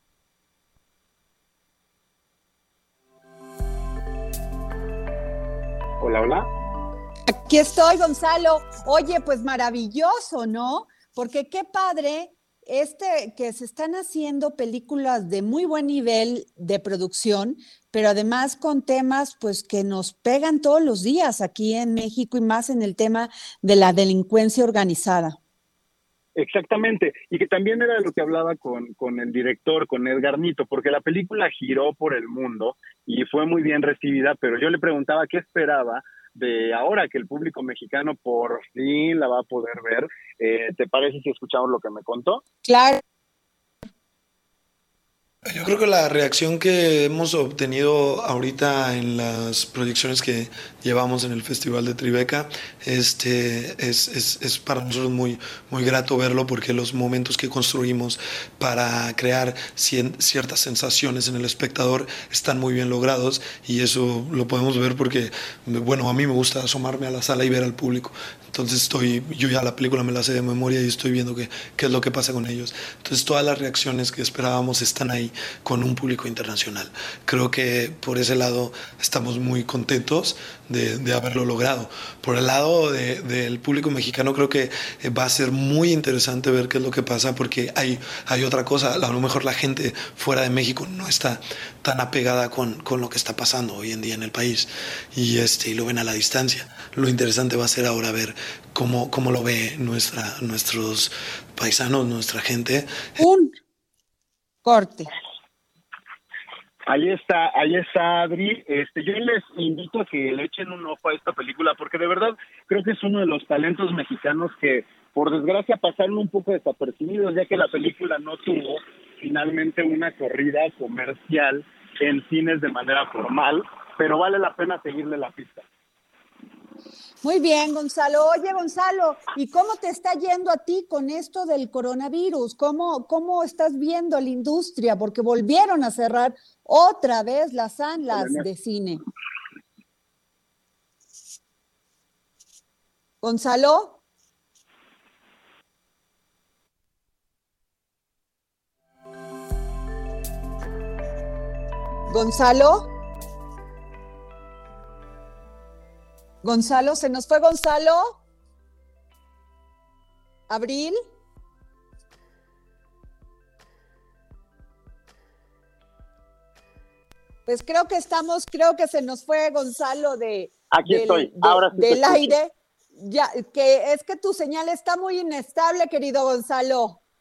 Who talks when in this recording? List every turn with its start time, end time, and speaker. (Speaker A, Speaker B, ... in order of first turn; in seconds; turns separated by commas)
Speaker A: 6.0-6.5, Speaker B: 7.3-25.4, Speaker A: 26.4-42.4, Speaker B: 42.6-43.0, Speaker C: 45.5-103.2, Speaker B: 103.2-103.6, Speaker B: 104.6-105.1, Speaker A: 106.9-125.7, Speaker B: 127.2-139.0, Speaker A: 138.1-138.4, Speaker B: 143.2-144.0, Speaker B: 152.1-152.9, Speaker B: 156.4-158.2, Speaker B: 160.5-161.0, Speaker B: 167.5-177.0, Speaker A: 170.7-172.3